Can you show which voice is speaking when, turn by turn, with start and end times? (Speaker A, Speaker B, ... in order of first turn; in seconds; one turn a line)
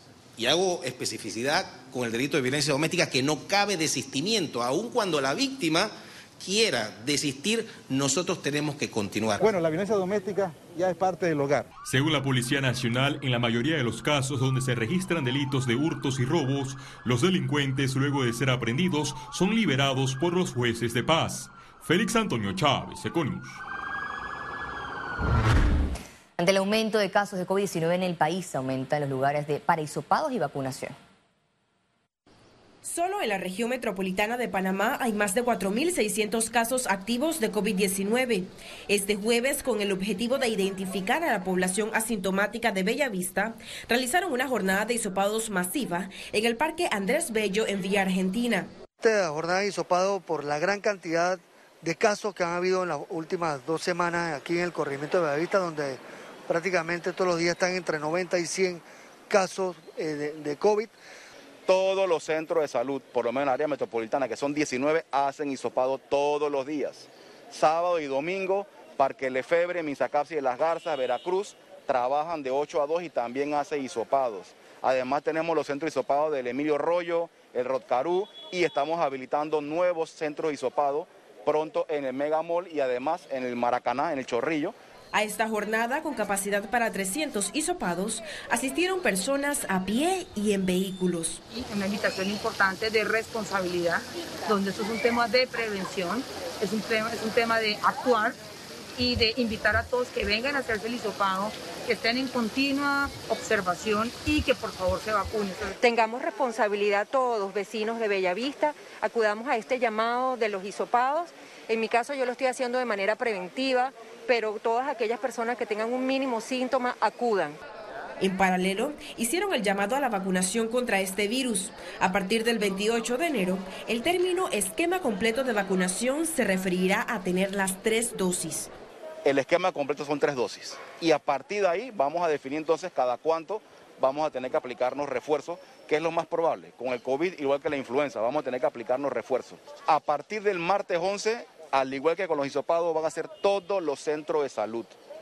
Speaker A: 0.4-9.4
Speaker B: 9.4-11.7
Speaker C: 11.8-23.6
Speaker D: 26.4-30.9
Speaker E: 32.8-48.7
Speaker F: 49.0-60.9
Speaker G: 61.7-84.7
Speaker E: 85.1-91.4
Speaker H: 91.5-98.3
Speaker H: 99.0-105.8
Speaker I: 105.8-117.6
Speaker E: 118.2-128.7
Speaker G: 129.2-144.9